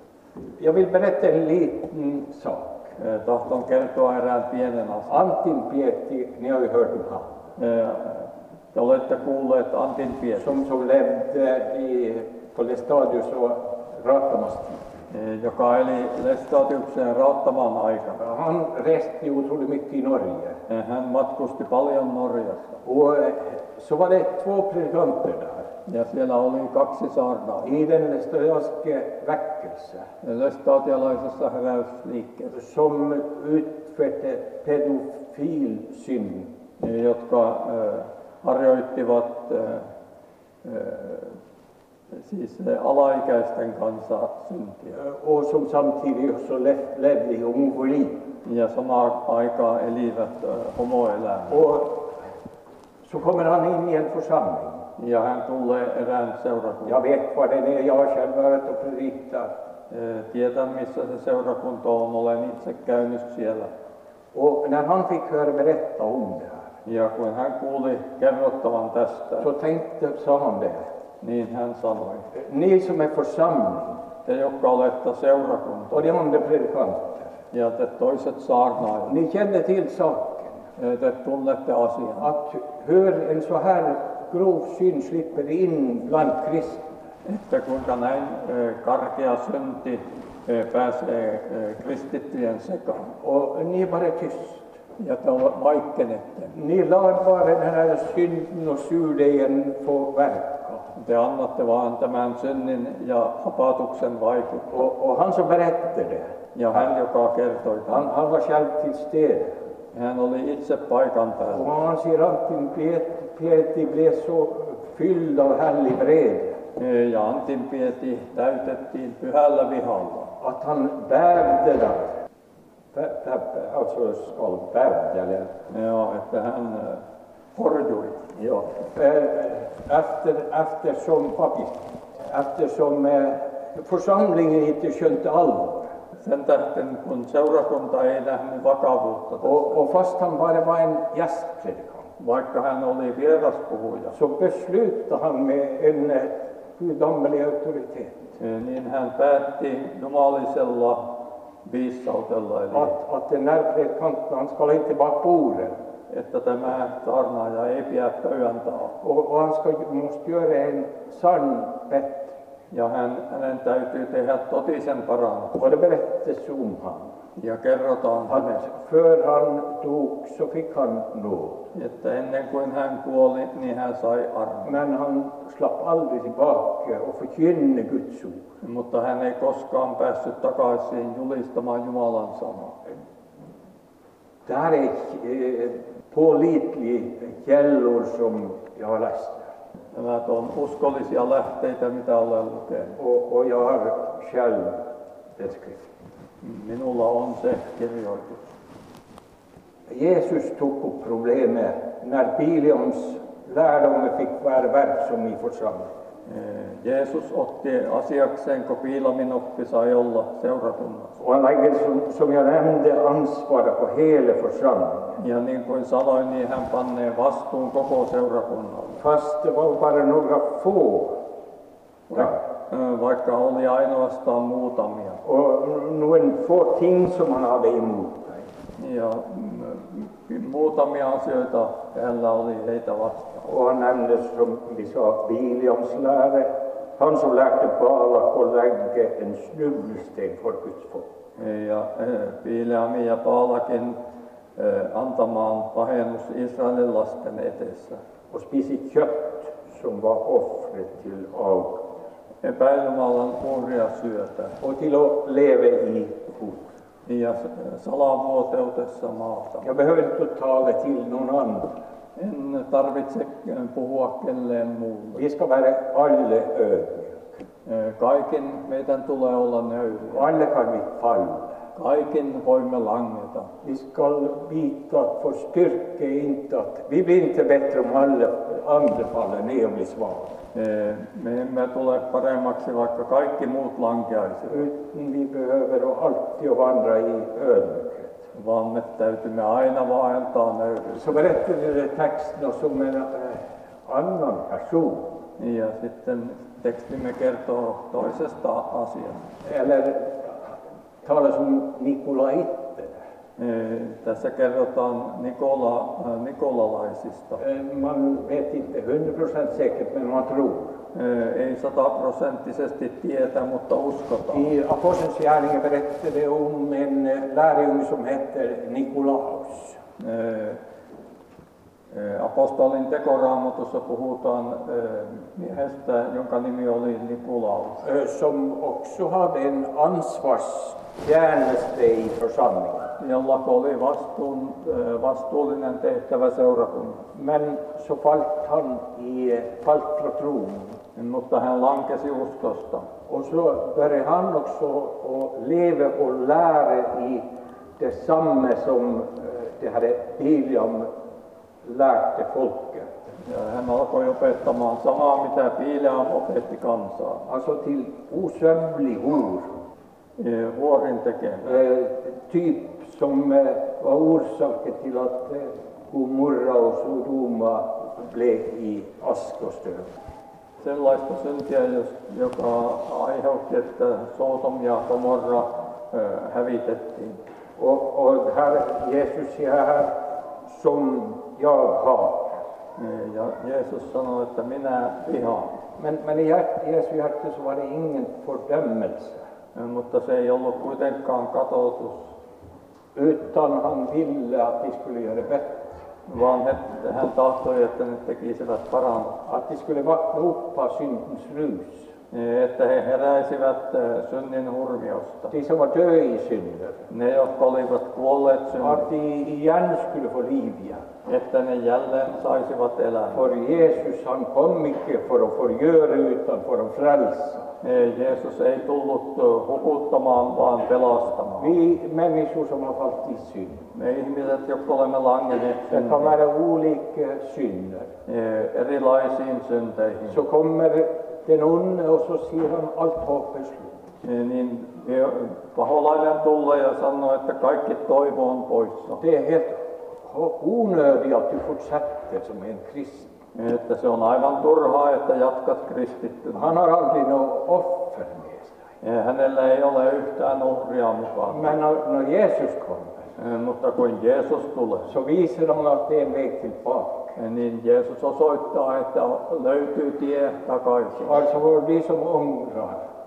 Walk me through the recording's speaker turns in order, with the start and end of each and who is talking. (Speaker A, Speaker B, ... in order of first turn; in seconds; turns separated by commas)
Speaker A: 0.6-2.8, Speaker B: 3.0-5.2, Speaker A: 5.1-7.4, Speaker B: 7.6-10.6, Speaker A: 10.4-14.8, Speaker B: 15.1-18.2, Speaker A: 18.2-20.6, Speaker B: 20.7-22.8, Speaker A: 22.8-25.7, Speaker B: 25.9-27.7, Speaker A: 27.6-30.1, Speaker B: 30.2-32.5, Speaker A: 32.5-36.5, Speaker B: 36.8-39.9, Speaker B: 40.6-41.4, Speaker B: 42.1-45.0, Speaker A: 44.9-48.2, Speaker B: 48.4-51.7, Speaker A: 51.5-52.1, Speaker A: 53.0-54.8, Speaker B: 55.0-57.0, Speaker A: 56.9-59.5, Speaker B: 59.9-63.7, Speaker A: 64.3-66.7, Speaker B: 66.8-69.5, Speaker A: 69.4-70.8, Speaker B: 71.2-72.3, Speaker A: 72.3-74.0, Speaker B: 74.3-76.1, Speaker A: 75.9-77.3, Speaker B: 77.5-79.1, Speaker A: 79.1-80.6, Speaker B: 80.8-82.3, Speaker A: 82.2-86.9, Speaker B: 87.2-93.2, Speaker A: 93.2-94.7, Speaker B: 95.0-96.5, Speaker A: 96.5-100.9, Speaker B: 101.0-104.7, Speaker A: 104.7-106.3, Speaker B: 106.5-108.1, Speaker A: 107.9-109.5, Speaker B: 109.9-111.7, Speaker A: 111.5-116.6, Speaker B: 116.8-120.3, Speaker A: 120.4-122.2, Speaker A: 122.9-125.5, Speaker B: 125.7-127.0, Speaker B: 127.6-128.3, Speaker A: 128.4-135.9, Speaker B: 136.2-139.8, Speaker A: 139.4-142.1, Speaker B: 142.2-144.2, Speaker A: 144.1-148.2, Speaker B: 148.4-151.0, Speaker B: 151.7-152.9, Speaker A: 152.7-155.7, Speaker B: 156.1-158.9, Speaker A: 159.0-162.4, Speaker B: 162.7-165.7, Speaker A: 165.6-167.1, Speaker B: 167.4-168.7, Speaker A: 168.3-171.6, Speaker B: 171.7-174.8, Speaker A: 174.6-178.4, Speaker B: 178.6-182.8, Speaker A: 184.5-189.5, Speaker B: 189.9-192.9, Speaker A: 193.0-194.8, Speaker A: 195.4-195.9, Speaker B: 196.4-198.6, Speaker A: 199.9-205.9, Speaker B: 206.3-211.2, Speaker A: 211.2-215.2, Speaker B: 215.2-219.0, Speaker A: 219.0-221.2, Speaker B: 222.1-225.2, Speaker A: 225.2-228.5, Speaker B: 228.8-233.4, Speaker A: 233.4-241.1, Speaker B: 241.4-244.0, Speaker B: 244.6-248.0, Speaker A: 248.3-251.8, Speaker B: 252.4-254.6, Speaker A: 254.6-256.7, Speaker B: 257.1-259.7, Speaker A: 259.6-261.7, Speaker B: 262.2-265.2, Speaker A: 265.1-267.3, Speaker B: 267.7-270.3, Speaker A: 270.1-271.6, Speaker B: 271.8-273.5, Speaker A: 273.6-280.4, Speaker B: 280.6-284.7, Speaker A: 284.5-288.2, Speaker B: 288.3-291.2, Speaker A: 290.9-295.1, Speaker B: 295.4-299.3, Speaker A: 299.4-303.0, Speaker B: 303.4-307.4, Speaker A: 307.4-310.8, Speaker B: 310.9-314.5, Speaker A: 314.3-319.8, Speaker B: 320.0-320.6, Speaker B: 321.9-327.8, Speaker A: 327.8-332.9, Speaker B: 333.0-337.1, Speaker A: 337.1-340.8, Speaker B: 341.0-342.9, Speaker A: 343.1-347.2, Speaker A: 347.8-350.9, Speaker A: 351.6-352.9, Speaker B: 353.2-357.3, Speaker A: 357.3-359.6, Speaker B: 360.2-361.6, Speaker A: 361.4-369.9, Speaker B: 370.6-377.2, Speaker A: 377.6-379.9, Speaker A: 380.5-382.4, Speaker B: 382.8-385.6, Speaker A: 385.8-389.2, Speaker B: 389.6-392.1, Speaker A: 392.9-395.8, Speaker B: 396.1-399.2, Speaker A: 399.2-401.9, Speaker B: 402.1-405.3, Speaker A: 405.3-406.8, Speaker B: 406.9-408.9, Speaker A: 408.6-410.9, Speaker B: 411.1-413.3, Speaker A: 413.1-417.5, Speaker B: 417.6-421.6, Speaker A: 421.4-423.7, Speaker B: 423.7-426.1, Speaker A: 425.7-427.9, Speaker B: 428.1-430.2, Speaker A: 430.1-433.8, Speaker B: 434.0-439.0, Speaker A: 439.0-443.1, Speaker B: 443.4-446.5, Speaker A: 446.3-448.6, Speaker B: 448.8-451.5, Speaker A: 451.3-453.1, Speaker B: 453.2-454.9, Speaker A: 454.9-457.1, Speaker B: 457.2-461.2, Speaker A: 461.0-462.8